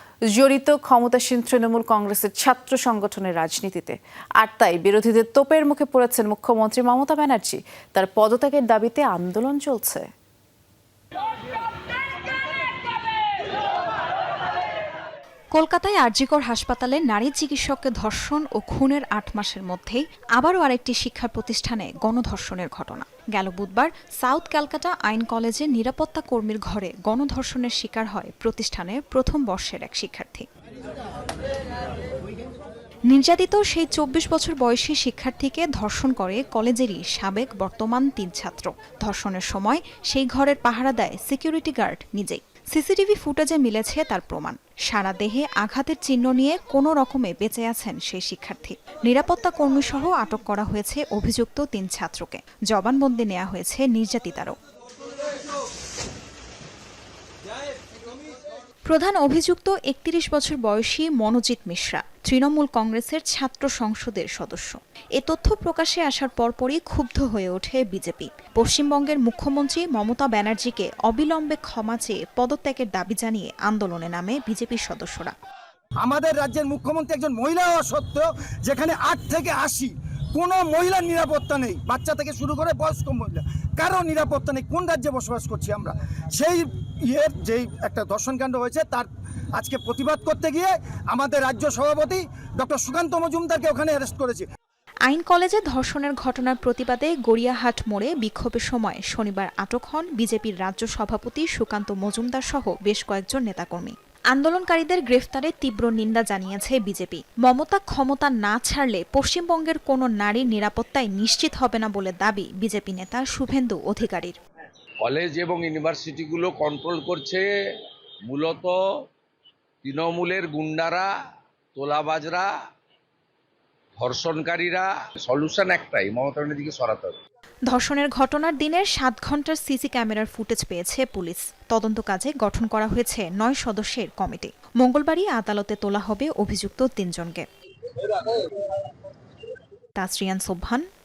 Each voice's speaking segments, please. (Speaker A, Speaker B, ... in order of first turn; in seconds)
Speaker A: 0.3-10.1
Speaker B: 15.5-30.5, 33.1-54.6, 58.9-75.3, 95.1-114.4, 127.7-137.4, 140.0-140.8
Speaker C: 76.0-94.5
Speaker D: 115.0-117.5, 118.3-118.8, 119.8-121.1, 121.8-122.5, 124.0-127.2